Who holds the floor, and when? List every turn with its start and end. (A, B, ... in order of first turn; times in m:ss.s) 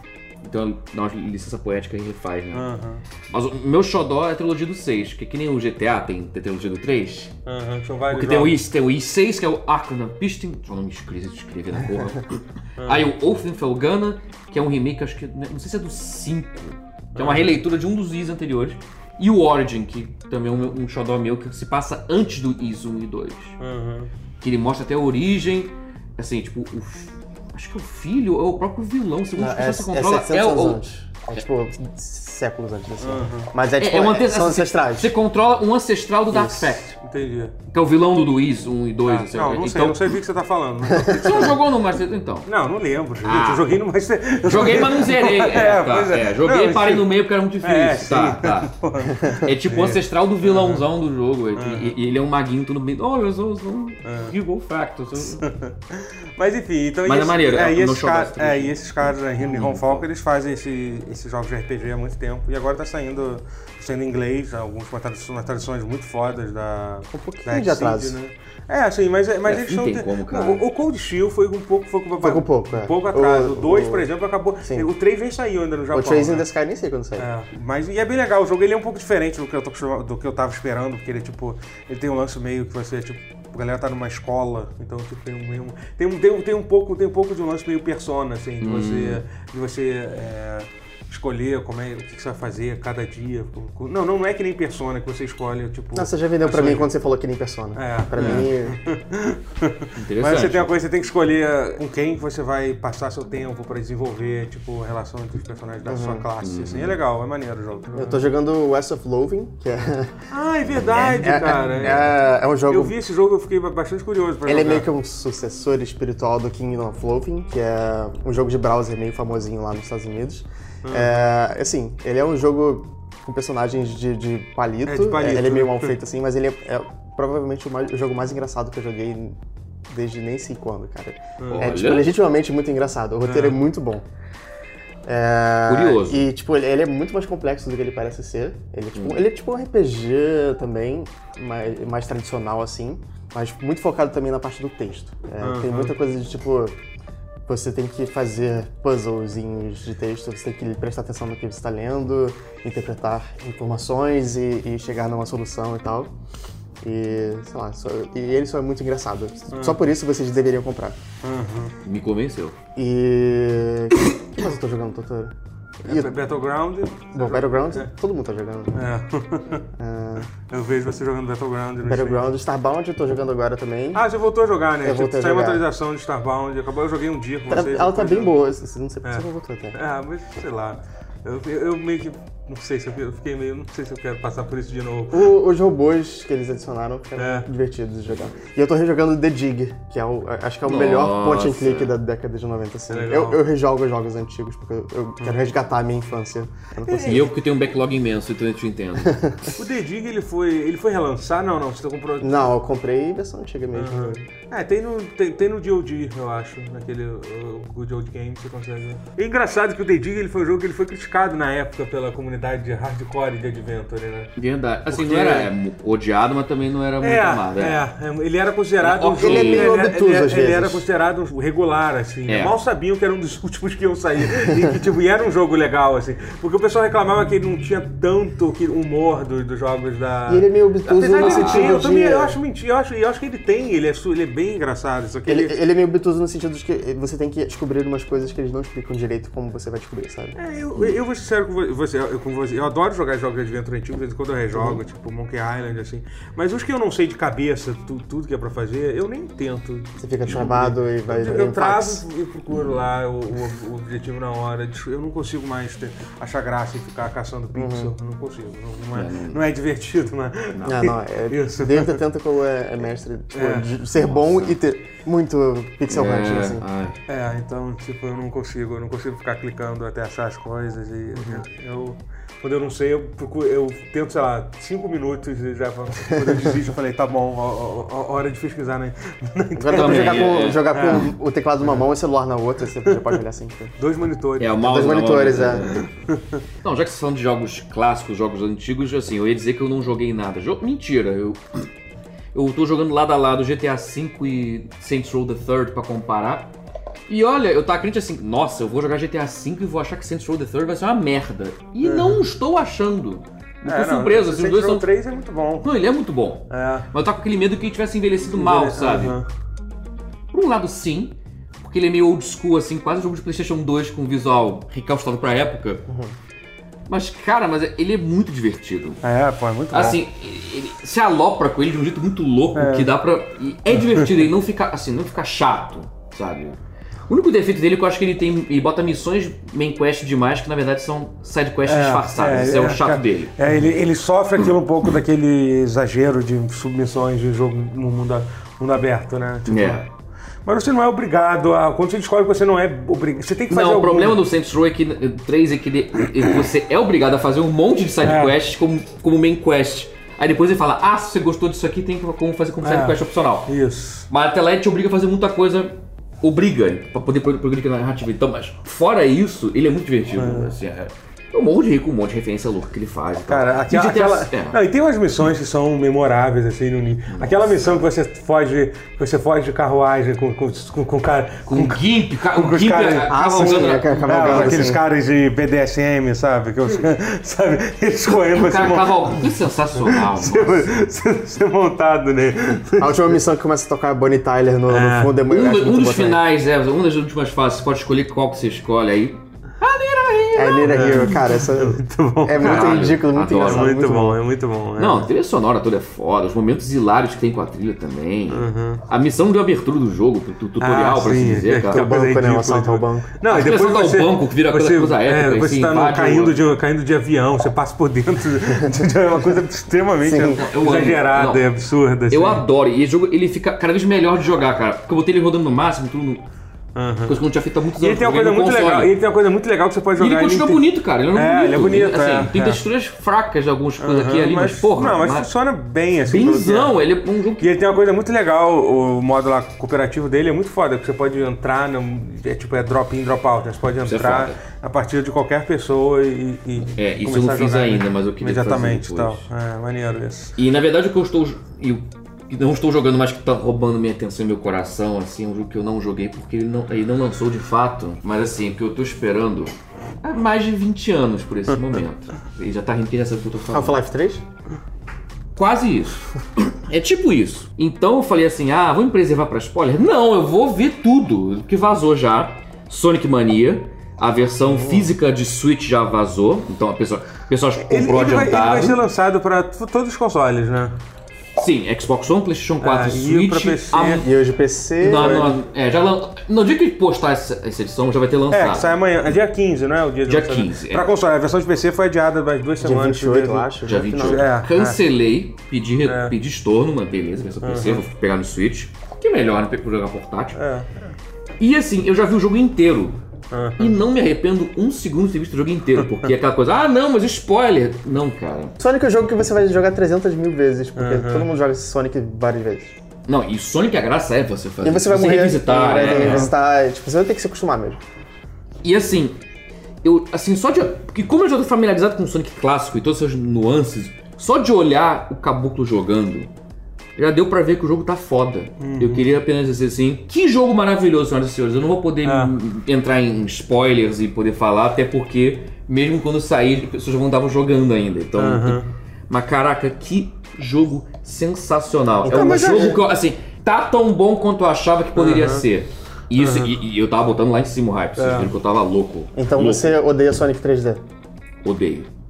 0:00.4-0:02.7 A
0:02.5-0:03.0 B
0:03.3-0:07.3 A
0:07.5-0:08.6 B
0:08.1-0:23.6 A
0:12.8-0:13.1 B
0:17.1-0:17.6 B
0:23.6-0:24.1 B
0:24.4-0:30.8 A
0:29.4-0:35.1 C
0:33.0-0:33.5 B
0:33.8-0:37.0 A
0:36.3-0:36.8 C
0:37.0-0:37.6 B
0:37.7-0:40.1 A
0:39.0-0:41.7 B
0:41.0-0:41.2 C
0:41.1-0:42.5 A
0:42.5-0:50.8 B
0:43.2-0:43.7 A
0:44.4-0:48.7 A
0:49.3-0:55.4 A
0:51.6-0:52.0 B
0:54.0-0:54.4 B
0:55.2-1:16.5 B
0:57.1-1:00.1 A
1:07.1-1:08.2 C
1:09.5-1:10.6 A
1:12.2-1:14.1 C
1:15.9-1:17.3 C
1:17.2-1:36.9 B
1:28.6-1:29.2 A
1:36.0-1:38.8 C
1:37.8-1:48.2 B
1:38.2-1:38.5 A
1:40.0-1:40.8 A
1:45.9-1:46.3 C
1:46.4-1:47.0 A
1:47.9-1:50.1 C
1:50.3-1:54.9 B
1:50.8-1:51.3 A
1:51.0-1:53.0 C
1:54.5-2:14.0 C
2:00.8-2:01.3 B
2:04.9-2:06.0 B
2:11.4-2:11.7 B
2:11.5-2:12.1 A
2:13.2-2:13.6 B
2:15.1-2:26.8 C
2:15.7-2:16.3 A
2:19.0-2:19.3 A
2:25.4-2:25.9 B
2:27.5-2:36.1 C
2:36.8-2:41.0 C
2:39.5-2:39.8 B
2:41.2-2:41.7 B
2:41.8-2:42.6 A
2:42.8-2:46.2 C
2:45.8-2:47.9 B
2:47.1-2:48.9 C
2:48.8-2:49.6 B
2:49.8-2:50.3 C
2:50.4-2:52.2 B
2:51.8-2:54.1 C
2:53.9-2:58.3 B
2:54.8-2:55.6 C
2:57.5-2:59.8 C
2:59.8-3:05.3 B
3:05.1-3:17.3 C
3:07.2-3:07.5 B
3:10.6-3:12.0 A
3:12.9-3:13.4 B
3:15.2-3:15.5 B
3:16.8-3:17.3 B
3:17.0-3:19.2 A
3:19.0-3:19.6 C
3:19.6-3:22.5 B
3:22.2-3:24.2 C
3:23.8-3:34.3 B
3:34.4-3:37.8 A
3:34.9-3:35.5 B
3:37.0-3:55.6 B
3:38.8-3:39.7 A
3:39.2-3:40.9 C
3:42.3-3:42.6 A
3:50.3-3:52.4 C
3:51.2-3:51.8 A
3:55.3-4:01.0 C
4:00.4-4:22.0 B
4:04.5-4:04.8 C
4:10.0-4:12.0 C
4:10.3-4:10.6 A
4:17.5-4:17.9 C
4:18.9-4:19.4 A
4:20.6-4:26.7 C
4:23.3-4:23.7 B
4:24.0-4:24.6 A
4:25.9-4:27.0 A
4:27.1-4:41.1 B
4:39.6-4:43.8 C
4:39.7-4:41.1 A
4:42.9-4:43.2 B
4:43.8-4:44.6 B
4:44.4-4:45.8 A
4:44.6-4:45.8 C
4:45.6-4:46.4 B
4:46.6-4:51.7 A
4:52.3-4:56.5 A
4:57.1-5:04.9 A
5:01.8-5:02.2 B
5:03.6-5:05.7 B
5:05.6-5:09.2 A
5:06.5-5:06.9 B
5:08.2-5:09.3 B
5:10.3-5:15.8 A
5:15.9-5:16.1 C
5:16.9-5:19.0 A
5:19.0-5:20.0 B
5:19.7-5:33.4 A
5:22.6-5:22.9 B
5:31.7-5:39.9 B
5:39.5-5:39.8 A
5:40.4-5:44.2 B
5:43.5-5:53.5 A
5:48.0-5:48.4 B
5:52.6-5:54.1 B
5:54.1-6:04.6 A
6:00.2-6:00.5 B
6:03.3-6:23.2 B
6:07.1-6:07.8 A
6:11.5-6:14.8 A
6:13.1-6:14.8 C
6:18.3-6:20.7 A
6:22.8-6:26.2 C
6:24.7-6:25.2 B
6:25.3-6:31.2 A
6:30.4-6:34.2 C
6:30.7-6:35.1 B
6:32.4-6:33.7 A
6:34.8-6:41.8 A
6:38.3-6:38.8 B
6:40.6-6:52.4 B
6:41.7-6:43.1 C
6:43.3-6:46.4 A
6:48.6-6:48.8 C
6:50.0-6:50.4 C
6:50.3-6:51.5 A
6:52.1-6:56.2 A
6:56.8-6:57.2 B
6:57.1-6:58.9 A
6:57.8-7:02.6 B
7:00.0-7:05.3 A
7:03.8-7:06.8 B
7:06.1-7:07.6 A
7:07.4-7:20.4 B
7:13.8-7:14.4 A
7:16.7-7:19.3 A
7:20.4-7:33.8 A
7:33.5-7:34.2 C
7:35.4-7:48.8 A
7:47.7-7:50.8 B
7:51.4-7:54.1 A
7:52.6-7:54.0 B
7:54.0-7:55.3 C
7:54.8-7:58.7 A
7:54.9-7:55.4 B
7:58.3-8:04.8 B
8:00.1-8:00.9 A
8:02.6-8:04.3 C
8:03.7-8:10.4 A
8:05.8-8:06.1 B
8:07.4-8:07.8 B
8:10.4-8:10.9 B
8:11.4-8:13.0 A
8:13.3-8:13.8 B
8:13.6-8:18.6 A
8:15.8-8:16.1 B
8:18.6-8:22.7 C
8:20.8-8:21.3 B
8:23.1-8:26.3 A
8:24.6-8:27.8 C
8:25.8-8:26.3 B
8:28.6-8:29.2 A
8:29.8-8:36.3 A
8:37.0-8:59.8 A
8:38.6-8:39.1 B
8:42.0-8:42.4 B
8:48.2-8:48.7 B
8:52.0-8:52.8 C
8:52.1-8:52.8 B
8:55.0-8:55.5 B
8:56.2-8:56.6 B
8:58.0-8:58.3 B
8:59.2-9:00.8 C
9:01.4-9:01.9 A